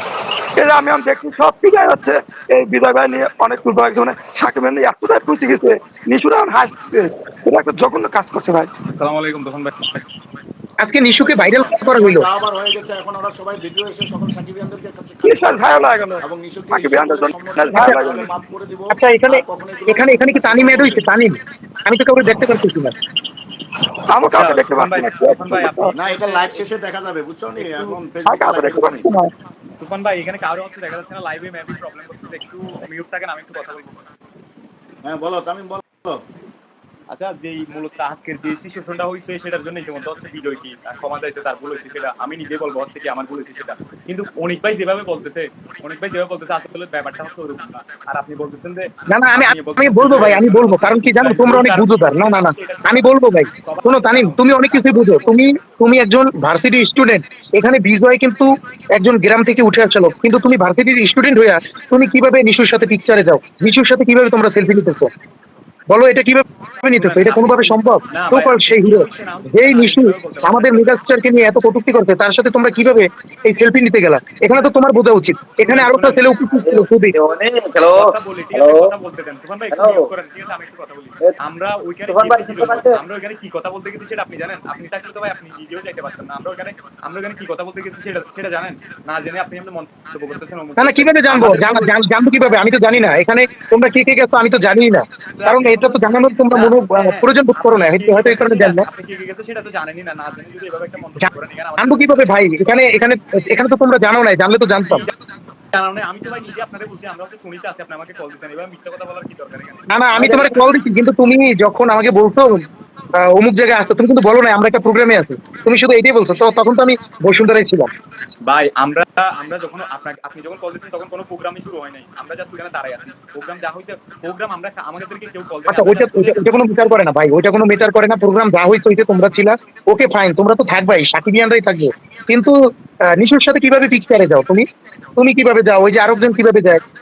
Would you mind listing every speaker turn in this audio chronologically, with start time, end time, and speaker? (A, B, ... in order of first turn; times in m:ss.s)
0:00.6-0:08.7 A
0:08.9-0:10.0 B
0:10.8-0:12.3 C
0:11.2-0:21.1 D
0:15.2-0:18.3 A
0:17.7-0:18.2 C
0:18.9-0:23.0 C
0:24.1-0:25.9 A
0:24.3-0:26.6 B
0:25.9-0:29.1 D
0:27.7-0:29.3 A
0:29.8-0:34.1 B
0:35.0-0:36.2 D
0:37.1-0:53.1 B
0:49.1-1:05.1 C
0:53.6-0:55.3 B
1:05.9-1:17.1 C
1:07.0-1:11.0 B
1:15.6-1:16.4 B
1:16.5-1:18.9 E
1:17.9-1:32.0 B
1:19.7-1:20.1 E
1:22.1-1:23.0 E
1:30.8-1:38.9 C
1:35.4-1:42.2 B
1:41.2-1:45.1 C
1:44.9-1:45.1 B
1:45.7-1:50.7 B
1:49.9-1:52.6 C
1:53.2-1:57.9 C
1:58.4-2:06.4 B
2:05.7-2:12.6 C
2:13.1-2:14.7 C
2:15.2-2:16.8 C